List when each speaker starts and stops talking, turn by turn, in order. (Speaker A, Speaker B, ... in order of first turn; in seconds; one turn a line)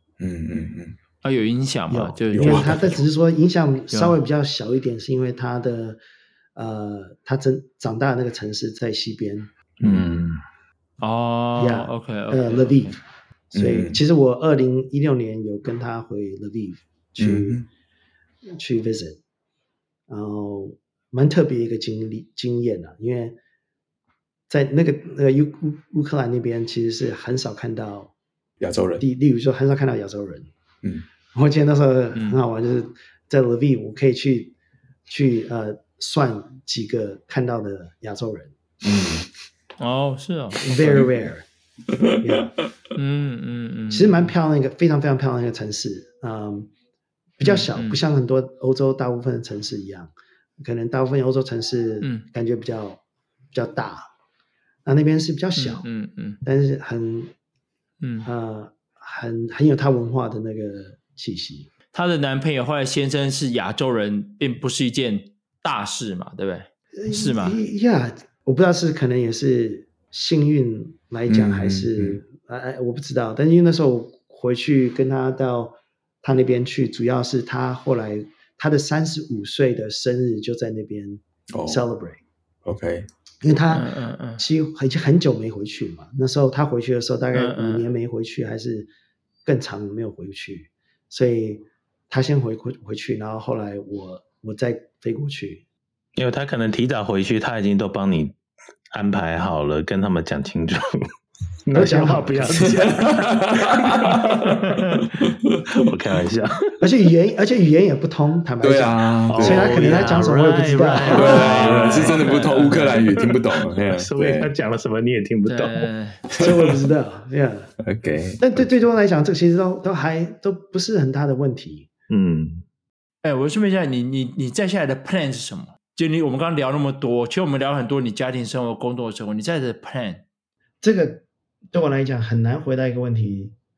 Speaker A: 0.2-1.0
Speaker B: 1.2-3.0
Speaker C: 1.9-6.0
Speaker A: 2.3-2.9
Speaker C: 6.5-9.5
Speaker A: 9.8-10.2
Speaker D: 9.8-10.4
Speaker B: 11.0-12.9
Speaker C: 11.6-13.0
Speaker A: 13.5-14.0
Speaker C: 13.5-17.6
Speaker A: 17.2-17.7
Speaker C: 18.5-19.2
Speaker C: 20.1-23.4
Speaker C: 24.5-28.1
Speaker A: 28.6-29.0
Speaker C: 29.0-30.5
Speaker C: 31.3-34.5
Speaker C: 35.1-38.5
Speaker A: 38.8-39.3
Speaker B: 39.8-40.7
Speaker C: 40.6-41.5
Speaker A: 40.8-41.1
Speaker A: 41.9-42.4
Speaker C: 42.2-42.5
Speaker B: 43.0-44.3
Speaker C: 43.9-46.7
Speaker C: 47.4-53.0
Speaker B: 47.4-48.0
Speaker C: 53.5-54.1
Speaker C: 54.9-55.9
Speaker B: 55.6-56.4
Speaker C: 56.4-57.3
Speaker B: 58.0-58.3
Speaker C: 58.2-61.7
Speaker B: 61.9-67.6
Speaker C: 67.0-82.2
Speaker A: 71.3-72.2
Speaker A: 81.5-81.8
Speaker A: 82.7-83.1
Speaker C: 83.4-88.9
Speaker B: 83.7-84.4
Speaker B: 87.3-87.9
Speaker C: 89.5-95.6
Speaker D: 96.2-98.4
Speaker D: 98.9-101.1
Speaker D: 101.7-105.0
Speaker C: 101.7-102.8
Speaker A: 102.9-104.6
Speaker A: 105.1-105.6
Speaker D: 105.8-106.7
Speaker C: 106.8-111.5
Speaker A: 108.6-110.1
Speaker D: 109.3-115.9
Speaker B: 111.0-113.1
Speaker A: 111.1-114.5
Speaker B: 115.5-116.2
Speaker C: 116.3-117.7
Speaker A: 117.8-118.7
Speaker C: 118.4-121.9
Speaker D: 122.1-122.6
Speaker B: 123.2-130.2
Speaker C: 130.8-133.5